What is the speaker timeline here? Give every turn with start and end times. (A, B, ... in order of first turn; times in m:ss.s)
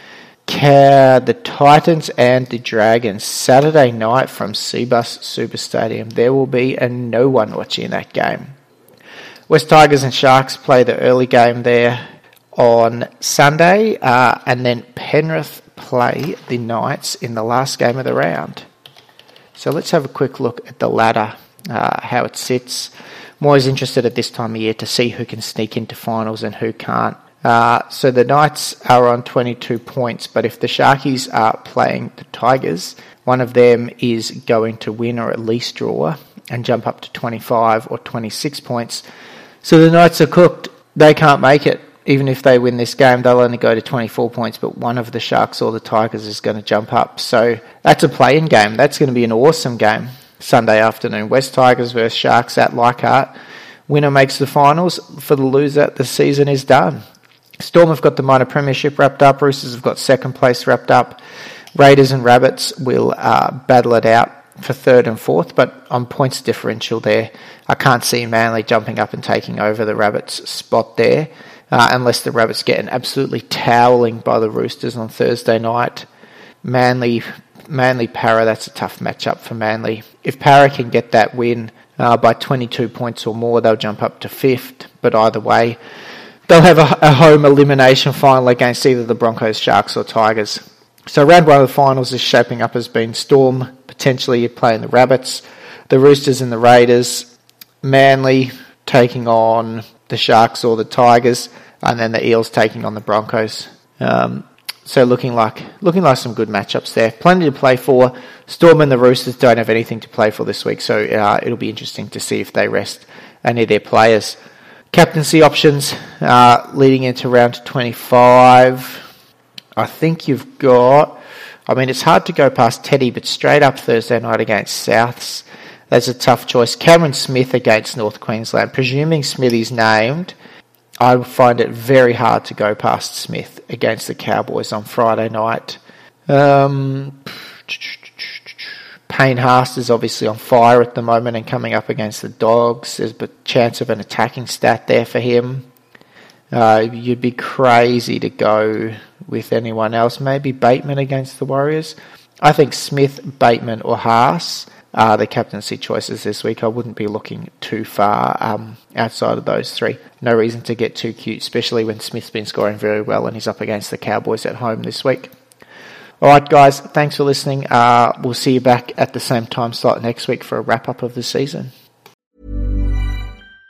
0:00.5-0:08.5 A
0:09.5-0:12.0 A
0:12.5-0:18.6 A
0:19.6-0:39.0 A
0:39.6-0:53.4 A
0:53.9-0:57.0 A
0:57.6-1:01.2 A
1:01.8-1:16.1 A
1:16.6-1:25.8 A
1:26.5-1:37.3 A
1:37.8-1:54.4 A
1:54.9-1:59.1 A
1:59.8-2:10.4 A
2:11.0-2:25.7 A
2:26.5-2:45.3 A
2:46.2-2:51.7 A